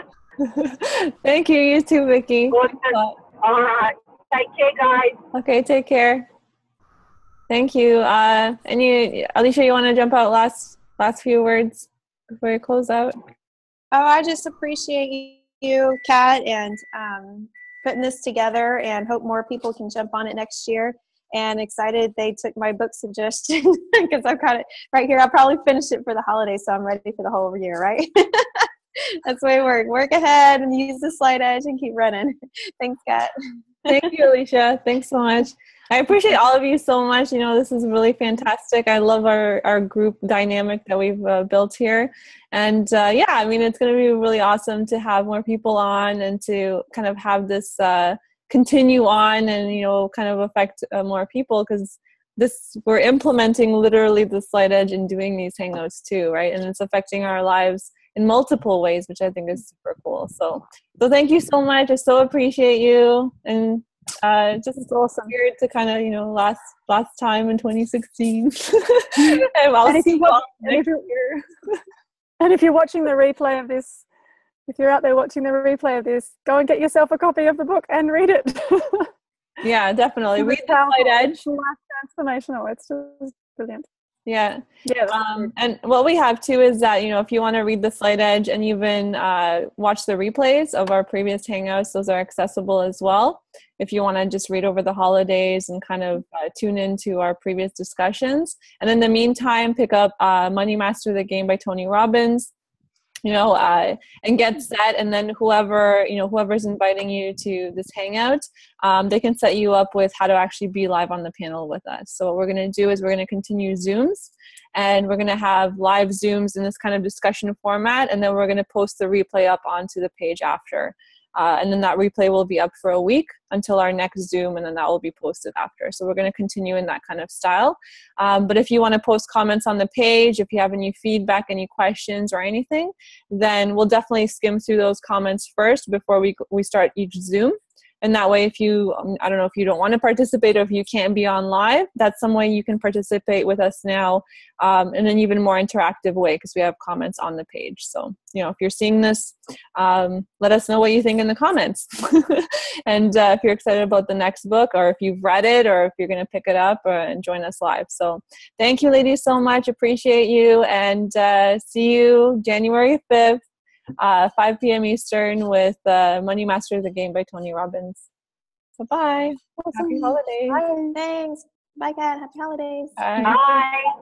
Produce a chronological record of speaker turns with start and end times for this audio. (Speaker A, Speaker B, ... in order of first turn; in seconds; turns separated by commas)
Speaker A: 0.4-3.1, Speaker B: 2.5-5.2, Speaker A: 5.3-6.3, Speaker A: 7.5-11.9, Speaker A: 12.4-13.2, Speaker C: 13.9-28.7, Speaker C: 29.2-33.3, Speaker A: 33.9-70.9, Speaker D: 64.9-65.3, Speaker D: 69.2-71.4, Speaker D: 72.4-74.0, Speaker D: 74.7-79.1, Speaker A: 79.6-81.4, Speaker D: 80.4-83.9, Speaker A: 84.3-102.5, Speaker D: 84.8-85.5, Speaker A: 103.2-163.4, Speaker A: 164.0-168.1, Speaker A: 168.8-170.6, Speaker D: 169.6-170.9, Speaker C: 170.9-173.0, Speaker A: 173.0-173.4, Speaker B: 173.2-173.9